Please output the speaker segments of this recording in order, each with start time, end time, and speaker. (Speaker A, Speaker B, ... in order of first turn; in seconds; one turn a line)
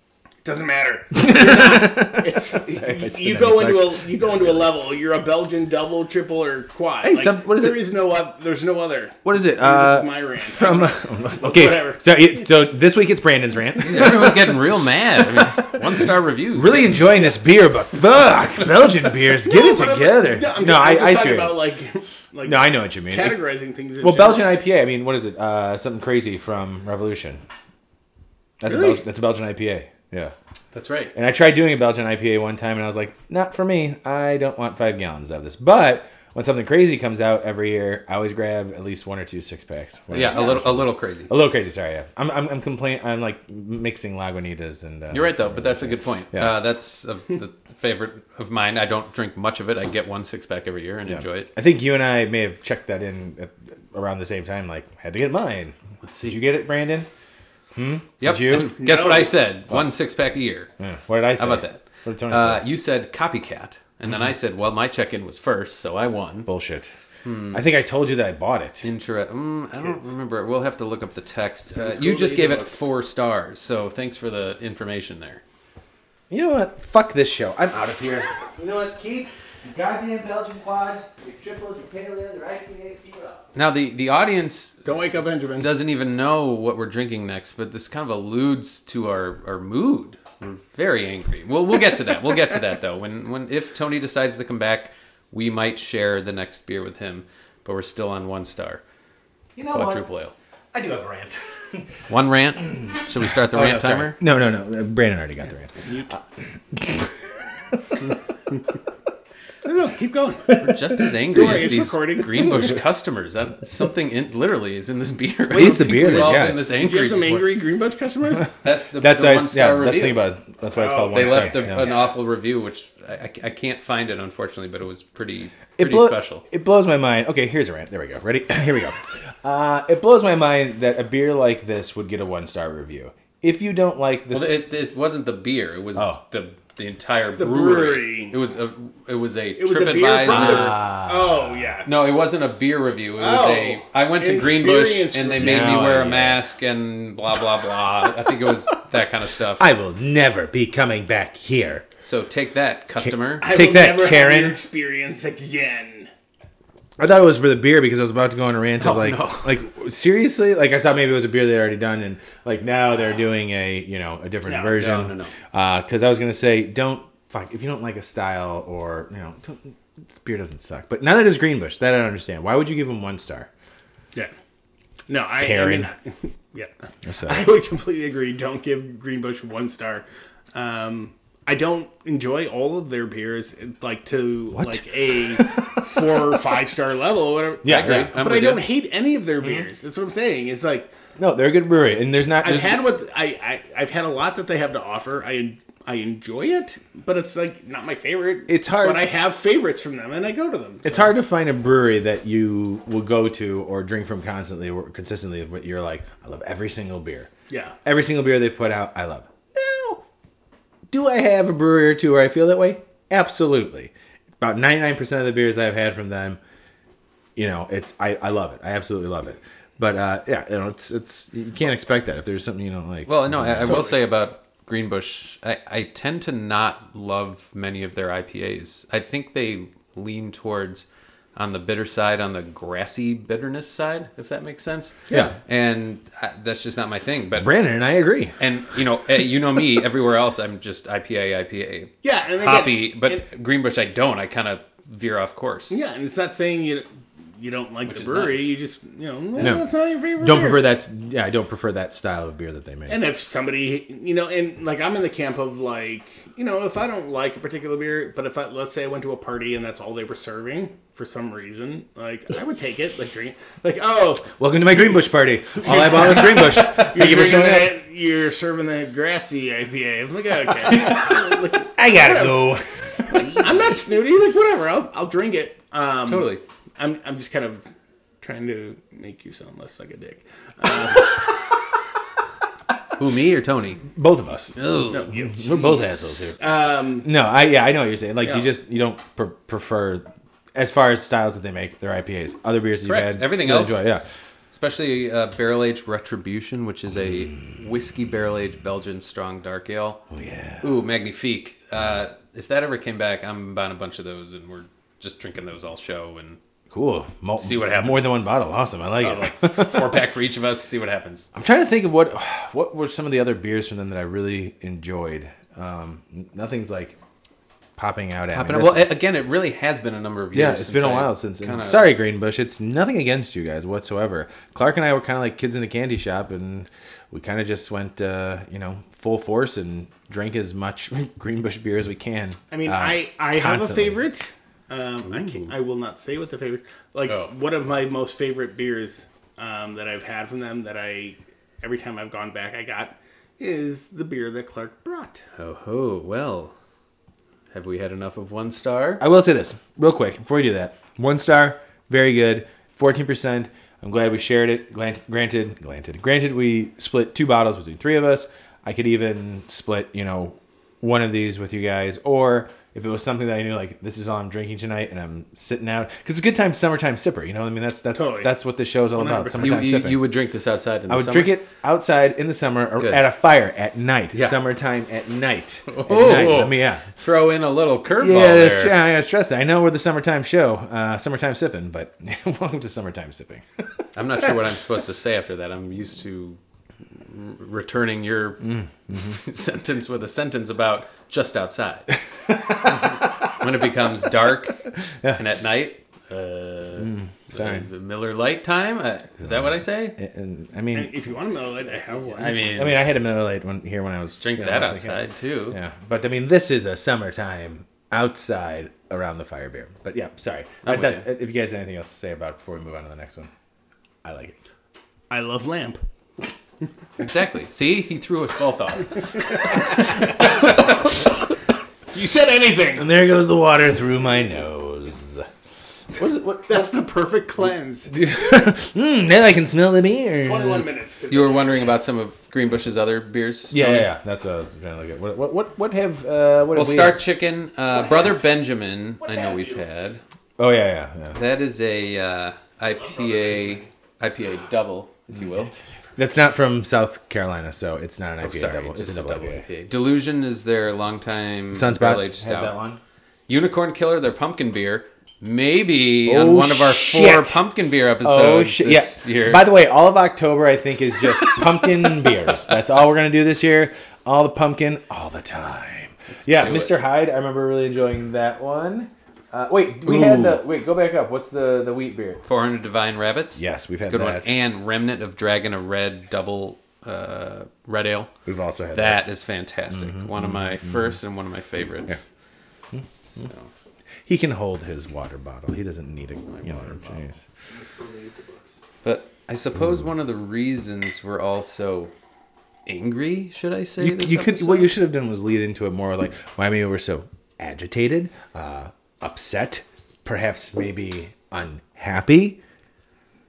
Speaker A: 0.4-12.1
Speaker B: 1.1-4.7
Speaker B: 7.0-7.8
Speaker B: 9.2-14.6
Speaker C: 13.8-17.1
Speaker B: 15.4-21.6
Speaker A: 19.4-24.5
Speaker B: 22.4-23.4
Speaker B: 24.0-27.4
Speaker B: 28.6-30.3
Speaker A: 28.6-29.0
Speaker C: 30.7-31.1
Speaker B: 31.1-46.6
Speaker C: 40.1-41.3
Speaker A: 40.3-40.5
Speaker C: 45.1-51.5
Speaker B: 51.1-55.7
Speaker C: 56.0-56.4
Speaker B: 56.2-57.1
Speaker B: 57.7-58.8
Speaker C: 58.2-60.7
Speaker A: 58.7-59.4
Speaker B: 60.8-62.6
Speaker C: 61.4-66.5
Speaker B: 66.5-66.9
Speaker C: 67.2-67.6
Speaker B: 67.5-68.8
Speaker C: 68.8-75.4
Speaker B: 72.0-72.5
Speaker A: 72.0-72.6
Speaker B: 76.3-83.4
Speaker C: 83.5-84.9
Speaker A: 84.8-85.7
Speaker C: 85.6-98.8
Speaker B: 99.5-100.0
Speaker C: 99.7-100.3
Speaker B: 100.7-101.9
Speaker C: 102.1-104.2
Speaker B: 103.5-106.2
Speaker A: 105.8-106.1
Speaker B: 106.7-107.1
Speaker B: 107.7-108.0
Speaker A: 109.6-110.6
Speaker C: 110.5-117.5
Speaker B: 110.5-111.0
Speaker A: 111.3-112.8
Speaker B: 115.5-116.6
Speaker A: 116.7-118.5
Speaker C: 118.6-120.3
Speaker B: 119.0-121.9
Speaker A: 120.7-122.1
Speaker C: 121.1-126.4
Speaker B: 125.8-134.6
Speaker C: 134.3-140.8
Speaker B: 135.9-136.2
Speaker A: 137.4-138.3
Speaker A: 139.6-141.9
Speaker B: 140.2-141.8
Speaker C: 141.8-149.7
Speaker A: 143.2-145.6
Speaker B: 145.4-146.4
Speaker B: 149.6-151.8
Speaker C: 152.0-153.5
Speaker B: 153.0-154.6
Speaker A: 153.4-156.1
Speaker B: 157.0-173.5
Speaker C: 158.8-159.5
Speaker A: 164.5-164.8
Speaker C: 164.7-165.3
Speaker A: 175.1-176.7
Speaker B: 175.4-175.9
Speaker B: 177.1-177.5
Speaker A: 177.2-190.9
Speaker B: 184.5-185.8
Speaker B: 187.6-188.1
Speaker C: 187.6-188.6
Speaker B: 191.2-192.8
Speaker A: 192.4-201.1
Speaker B: 198.5-199.1
Speaker B: 200.8-207.3
Speaker A: 207.5-207.8
Speaker B: 207.8-210.0
Speaker B: 210.9-216.4
Speaker B: 217.3-223.8
Speaker C: 223.1-237.5
Speaker A: 223.7-223.9
Speaker B: 237.4-238.3
Speaker C: 238.4-245.8
Speaker A: 242.0-243.2
Speaker A: 245.7-246.9
Speaker A: 247.4-250.7
Speaker C: 247.8-248.6
Speaker B: 249.4-249.6
Speaker B: 250.2-253.0
Speaker A: 252.9-264.8
Speaker B: 264.3-267.8
Speaker A: 265.6-272.6
Speaker B: 270.8-271.1
Speaker B: 271.6-273.2
Speaker C: 273.2-273.4
Speaker A: 273.2-277.6
Speaker C: 276.1-276.4
Speaker A: 278.2-281.2
Speaker C: 283.0-283.8
Speaker B: 283.9-284.5
Speaker C: 284.6-285.1
Speaker A: 284.9-287.1
Speaker B: 285.3-286.4
Speaker B: 287.0-294.0
Speaker A: 288.2-288.5
Speaker C: 292.8-293.8
Speaker C: 294.5-300.0
Speaker B: 300.1-300.7
Speaker C: 300.6-306.4
Speaker B: 306.7-310.0
Speaker C: 307.4-308.2
Speaker C: 309.0-311.3
Speaker B: 311.3-317.0
Speaker B: 317.8-318.9
Speaker C: 318.3-321.9
Speaker B: 320.3-334.0
Speaker A: 332.5-345.2
Speaker C: 335.1-335.5
Speaker C: 345.4-346.5
Speaker C: 347.5-349.0
Speaker B: 349.0-370.0
Speaker A: 367.9-368.3
Speaker A: 368.9-369.7
Speaker C: 369.4-371.4
Speaker B: 370.9-376.8
Speaker C: 375.7-378.8
Speaker B: 378.0-383.7
Speaker C: 383.9-386.4
Speaker C: 387.0-391.9
Speaker B: 388.4-389.2
Speaker B: 392.2-393.1
Speaker C: 392.7-394.6
Speaker C: 395.1-399.9
Speaker B: 396.8-397.6
Speaker B: 399.2-400.9
Speaker A: 400.7-402.6
Speaker C: 402.1-402.8
Speaker B: 402.5-413.3
Speaker C: 404.2-405.6
Speaker C: 410.6-411.1
Speaker B: 414.0-414.4
Speaker A: 415.1-415.8
Speaker C: 417.0-419.5
Speaker A: 419.7-420.6
Speaker A: 421.9-422.9
Speaker B: 422.8-425.3
Speaker B: 425.9-426.7
Speaker A: 426.5-427.9
Speaker B: 427.9-430.7
Speaker A: 430.2-431.8
Speaker C: 431.1-433.9
Speaker B: 433.5-437.0
Speaker C: 436.5-440.0
Speaker A: 437.7-438.1
Speaker A: 439.0-439.6
Speaker B: 440.4-441.2
Speaker C: 441.1-445.5
Speaker A: 442.7-443.7
Speaker B: 446.0-449.4
Speaker C: 448.2-452.5
Speaker B: 451.5-452.8
Speaker C: 453.3-459.4
Speaker B: 456.1-457.4
Speaker B: 458.0-472.2
Speaker C: 466.1-466.8
Speaker C: 469.9-470.4
Speaker C: 472.2-478.1
Speaker B: 473.4-474.3
Speaker B: 478.2-479.0
Speaker C: 478.7-482.1
Speaker B: 479.7-480.9
Speaker C: 483.1-483.5
Speaker B: 484.1-487.2
Speaker C: 486.3-487.1
Speaker A: 487.5-488.6
Speaker C: 488.8-491.9
Speaker C: 492.6-494.7
Speaker B: 493.8-502.4